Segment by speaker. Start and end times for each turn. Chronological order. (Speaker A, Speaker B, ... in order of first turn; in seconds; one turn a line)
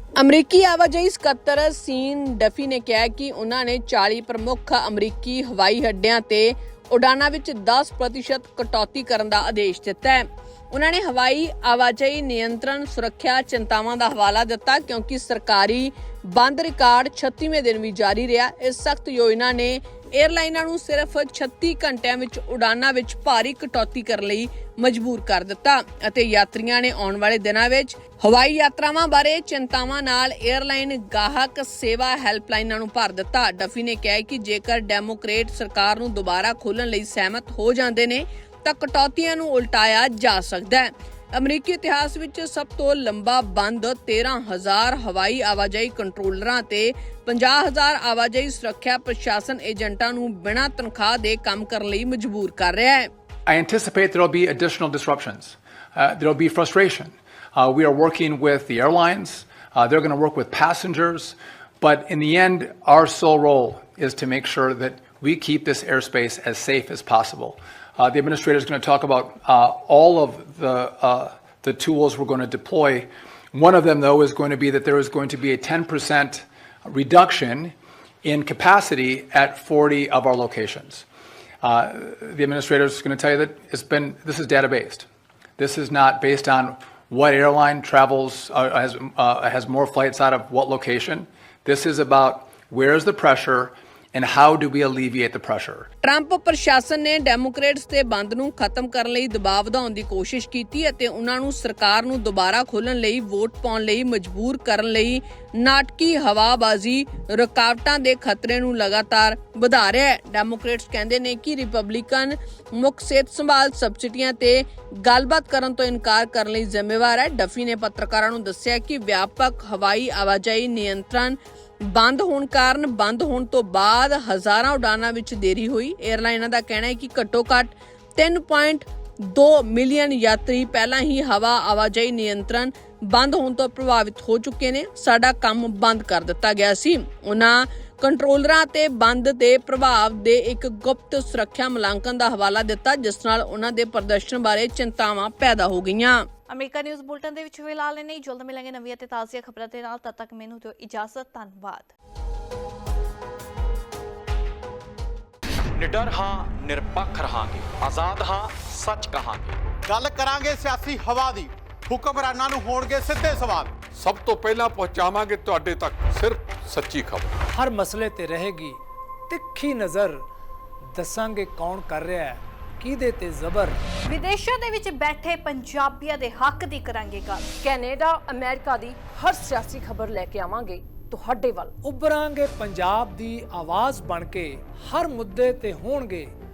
Speaker A: 0.2-53.1
Speaker B: 53.5-81.0
Speaker B: 81.6-85.0
Speaker B: 85.6-95.9
Speaker A: 96.0-146.2
Speaker C: 146.5-151.9
Speaker D: 155.7-159.6
Speaker E: 159.9-163.7
Speaker F: 163.8-167.3
Speaker G: 167.5-170.2
Speaker G: 170.9-173.8
Speaker C: 174.0-177.5
Speaker H: 177.6-181.7
Speaker G: 181.8-186.3